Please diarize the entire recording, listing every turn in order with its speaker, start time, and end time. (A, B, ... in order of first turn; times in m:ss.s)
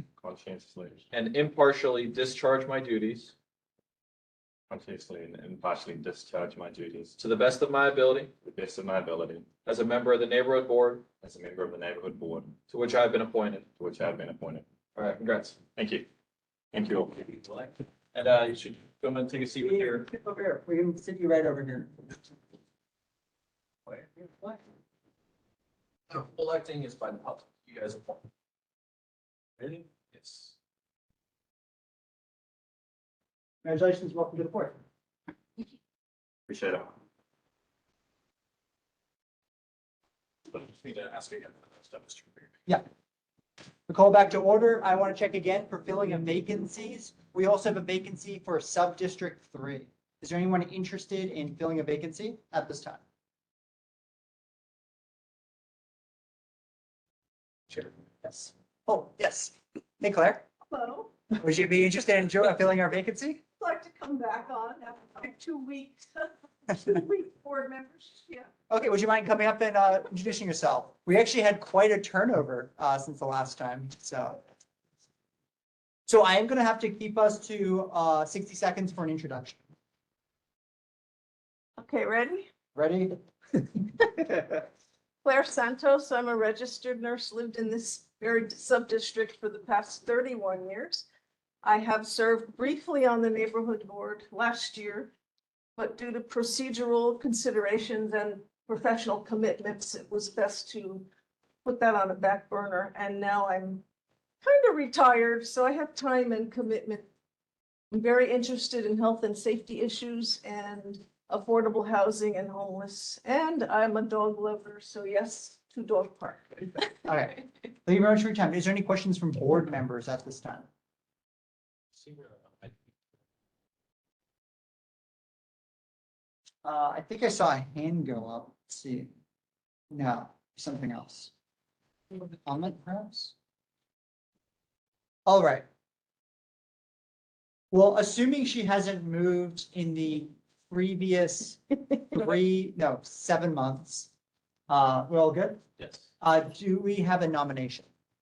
0:00.2-0:01.0 A
0:01.1-0:03.3 B
0:04.7-0:07.2 A
0:07.2-0:08.3 B
0:08.4-0:09.5 A
0:09.6-0:11.1 B
0:11.2-0:12.6 A
0:12.7-0:13.7 B
0:13.8-0:14.6 A
0:15.0-0:15.6 B
0:15.7-0:16.1 A
0:16.7-0:17.2 A
0:17.3-0:20.1 B
0:19.6-0:22.0 C
0:23.9-0:24.6 C
0:26.1-0:28.2 B
0:29.6-0:30.5 B
0:33.6-0:34.8 C
0:36.5-0:36.9 A
0:40.5-0:42.3 B
0:43.9-0:53.0 C
0:57.7-1:00.4 C
1:00.7-1:01.2 D
1:01.4-1:03.4 C
1:03.6-1:08.5 D
1:08.7-1:14.4 C
1:16.1-1:19.6 C
1:21.8-1:22.5 D
1:22.8-1:23.2 C
1:25.2-1:31.1 D
1:31.6-1:35.1 D
1:35.8-1:41.1 D
1:41.6-1:43.8 D
1:44.4-1:47.1 D
1:47.9-1:56.9 D
1:57.0-2:00.7 C
2:02.0-2:02.7 B
2:06.6-2:09.1 C
2:09.9-2:11.3 C
2:12.4-2:13.4 C
2:15.3-2:15.7 C
2:17.7-2:24.1 C
2:24.7-2:25.6 C
2:26.2-2:27.9 C